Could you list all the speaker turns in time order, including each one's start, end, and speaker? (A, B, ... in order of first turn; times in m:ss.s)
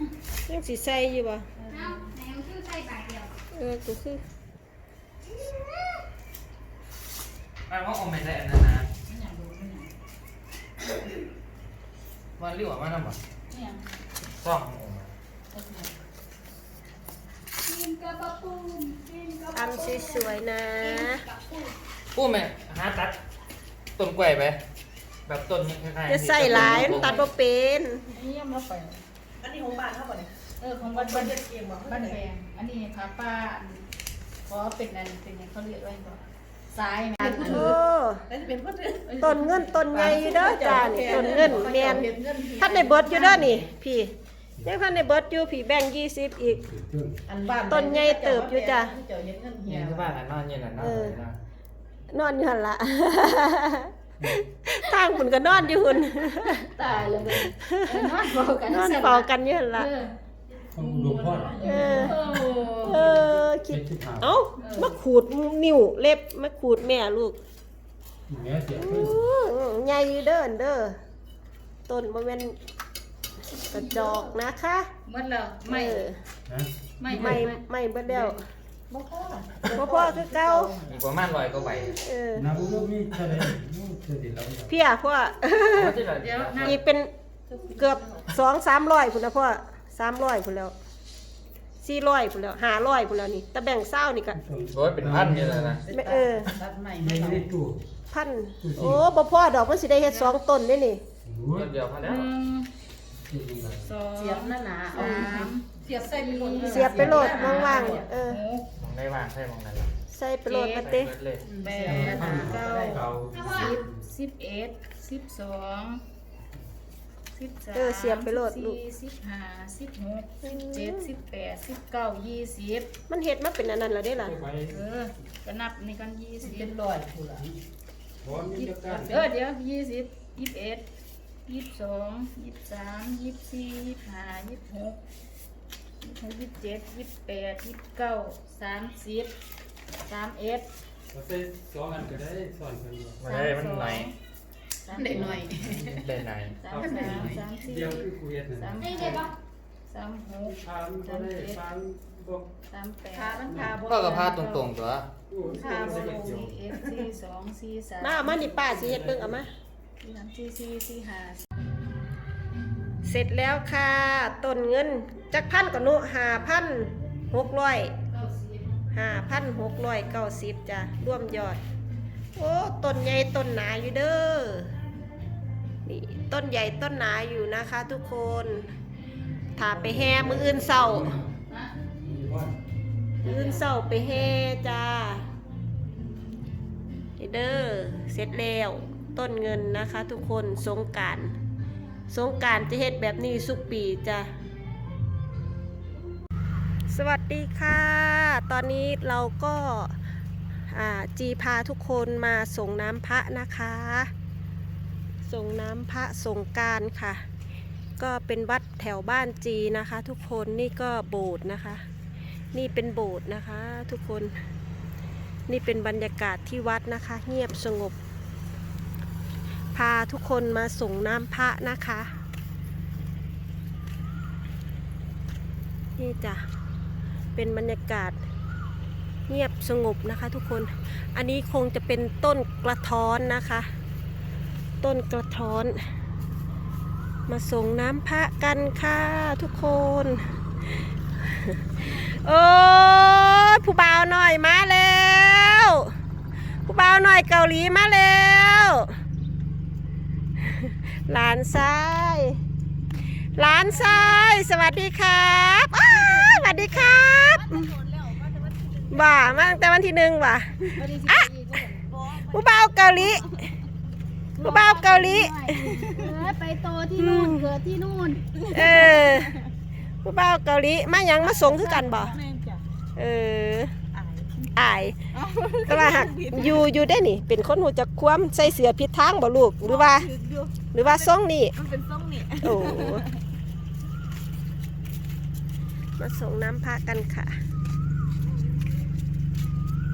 0:00.5-0:01.5 A
0:01.6-0:02.1 B
0:01.7-0:03.4 C
0:03.5-0:04.2 A
0:07.7-0:08.9 D
0:09.1-0:09.9 B
0:12.4-0:13.2 D
0:13.5-0:13.8 B
0:14.4-0:15.1 D
0:15.5-0:15.9 B
0:17.8-0:19.5 C
0:19.5-0:21.2 A
0:22.1-0:23.2 D
0:24.0-0:24.6 D
0:25.2-0:27.3 D
0:26.1-0:28.0 A
0:28.1-0:29.0 B
0:29.4-0:30.3 E
0:30.6-0:33.8 B
0:30.9-0:32.2 E
0:34.5-0:37.8 B
0:37.2-0:37.7 E
0:37.4-0:38.2 A
0:38.3-0:39.2 E
0:39.0-0:40.3 B
0:39.2-0:46.6 A
0:39.9-0:43.7 E
0:41.0-0:41.7 B
0:46.5-0:47.2 F
0:47.3-0:50.2 E
0:47.7-0:48.9 A
0:49.7-0:51.4 D
0:50.8-0:51.2 A
0:52.1-0:56.7 A
0:54.2-0:54.4 F
0:56.4-1:00.1 B
0:56.8-0:57.5 F
0:57.6-0:59.9 A
1:00.7-1:02.9 E
1:00.7-1:01.7 F
1:01.6-1:02.2 A
1:01.8-1:03.1 B
1:02.8-1:07.4 A
1:03.1-1:04.4 F
1:04.6-1:05.0 B
1:08.3-1:09.2 F
1:08.8-1:11.0 A
1:11.9-1:12.6 A
1:13.7-1:14.9 A
1:15.0-1:16.1 B
1:15.7-1:16.2 A
1:16.5-1:17.5 F
1:17.0-1:17.6 B
1:17.1-1:18.4 A
1:18.1-1:18.3 E
1:18.9-1:21.0 E
1:19.7-1:20.7 A
1:20.9-1:22.0 D
1:22.0-1:22.5 A
1:22.3-1:24.7 F
1:24.7-1:26.0 A
1:25.7-1:26.8 D
1:26.2-1:26.8 B
1:26.6-1:30.7 A
1:27.5-1:28.3 E
1:31.8-1:34.4 A
1:34.3-1:35.8 F
1:34.7-1:35.8 D
1:35.8-1:37.5 E
1:35.9-1:36.5 A
1:37.0-1:37.8 F
1:38.1-1:41.0 A
1:38.6-1:39.0 F
1:40.0-1:40.4 B
1:41.2-1:41.7 F
1:41.5-1:42.3 D
1:42.0-1:42.7 B
1:43.1-1:43.9 F
1:43.6-1:48.7 B
1:44.1-1:48.1 E
1:46.6-1:48.4 A
1:48.8-1:49.9 D
1:50.1-1:51.1 A
1:50.4-1:51.0 B
1:50.8-1:51.4 D
1:51.4-1:53.1 E
1:51.6-1:52.7 B
1:51.8-1:54.0 F
1:52.5-1:52.8 A
1:53.3-1:53.7 C
1:53.4-1:56.0 B
1:57.3-2:02.9 B
1:57.7-1:58.8 A
2:00.4-2:01.1 A
2:03.1-2:04.4 A
2:04.2-2:04.8 F
2:04.7-2:06.7 B
2:06.4-2:07.5 E
2:08.2-2:09.1 F
2:08.3-2:10.9 B
2:08.9-2:09.3 E
2:11.4-2:15.0 B
2:16.0-2:19.3 B
2:20.1-2:20.7 B
2:21.1-2:23.2 F
2:23.2-2:24.1 D
2:23.3-2:24.1 B
2:24.8-2:25.5 B
2:24.9-2:26.2 E
2:25.4-2:26.0 F
2:26.0-2:26.6 D
2:26.5-2:29.3 B
2:26.7-2:29.3 F
2:26.8-2:27.3 E
2:29.9-2:31.6 B
2:30.4-2:32.5 F
2:32.7-2:34.7 B
2:33.1-2:34.2 E
2:33.5-2:33.8 F
2:33.8-2:35.1 D
2:35.3-2:37.0 F
2:35.4-2:38.8 B
2:35.6-2:36.1 E
2:38.0-2:39.5 A
2:38.7-2:39.4 F
2:40.0-2:41.4 B
2:43.0-2:47.9 A
2:48.1-2:48.8 B
2:48.9-2:51.6 A
2:52.4-2:54.7 A
2:55.8-2:58.7 A
2:59.6-3:01.2 A
2:59.6-3:01.3 F
3:01.5-3:01.7 B
3:02.0-3:02.6 F
3:03.2-3:03.7 B
3:03.2-3:05.2 A
3:07.2-3:11.3 A
3:12.1-3:14.3 A
3:16.9-3:20.0 A
3:20.7-3:24.1 A
3:25.3-3:27.2 A
3:28.0-3:31.8 A
3:32.5-3:34.3 A
3:35.5-3:38.0 A
3:39.7-3:42.1 A
3:46.0-3:46.4 A
3:47.4-3:48.2 A
3:49.3-3:53.7 A
3:54.8-3:55.8 A
3:57.3-4:05.9 A
4:06.7-4:09.0 A
4:10.4-4:12.4 A
4:13.3-4:17.7 A
4:13.4-4:13.8 B
4:15.8-4:19.6 E
4:18.9-4:21.3 A
4:20.6-4:21.9 B
4:21.9-4:22.4 E
4:22.1-4:23.4 A
4:24.4-4:28.2 B
4:24.4-4:25.9 A
4:27.0-4:27.5 A
4:28.4-4:29.5 E
4:28.5-4:29.4 A
4:30.0-4:32.2 A
4:31.2-4:32.6 E
4:33.0-4:33.7 A
4:33.9-4:34.5 E
4:34.5-4:35.0 A
4:35.1-4:36.8 E
4:35.7-4:40.1 A
4:39.6-4:43.2 E
4:40.7-4:41.6 A
4:42.4-4:43.1 A
4:46.0-4:47.3 A